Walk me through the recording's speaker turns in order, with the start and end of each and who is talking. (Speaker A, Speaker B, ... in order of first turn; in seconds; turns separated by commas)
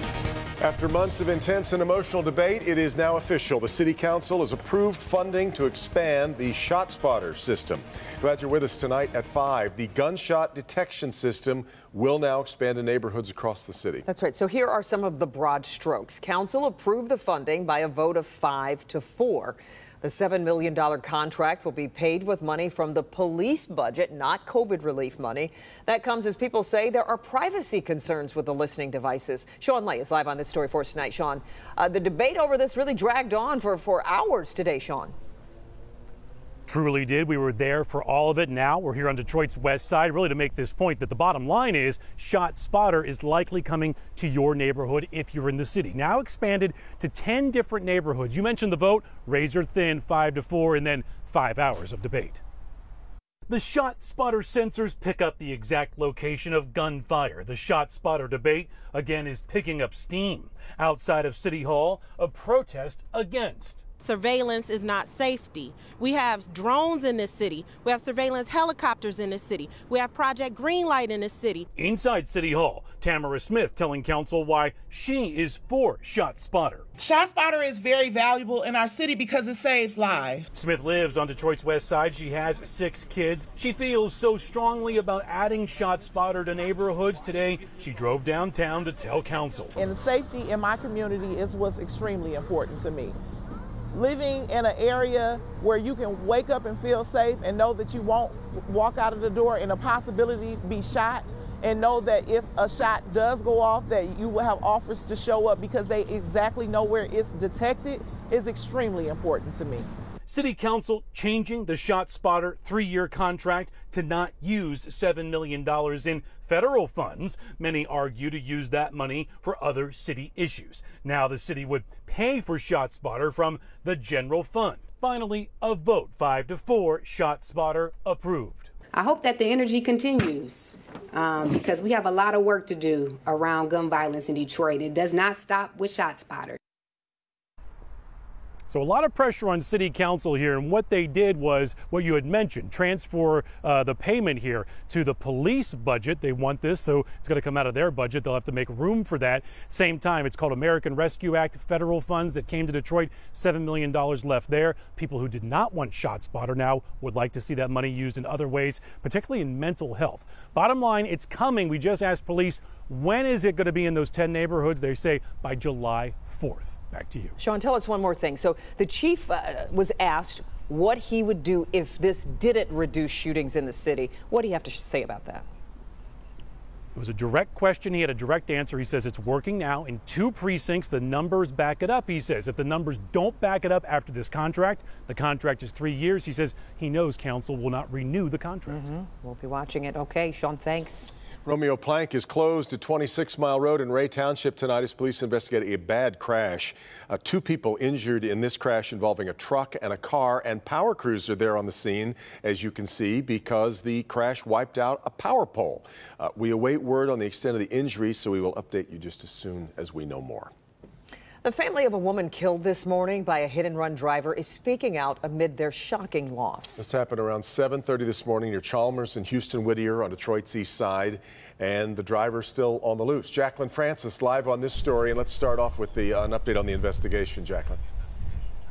Speaker A: 0.6-14.0, Speaker B: 14.1-35.1, Speaker C: 36.7-52.4, Speaker C: 53.5-63.8, Speaker D: 64.0-71.7, Speaker C: 71.7-76.8, Speaker E: 77.0-80.5, Speaker C: 80.5-89.7, Speaker E: 89.8-93.2, Speaker E: 93.9-109.9, Speaker C: 110.3-128.7, Speaker F: 129.0-136.6, Speaker C: 138.7-167.3, Speaker B: 167.4-175.4, Speaker C: 176.9-188.8, Speaker B: 188.7-191.1, Speaker A: 191.4-210.5, Speaker B: 211.4-216.8, Speaker A: 216.8-227.8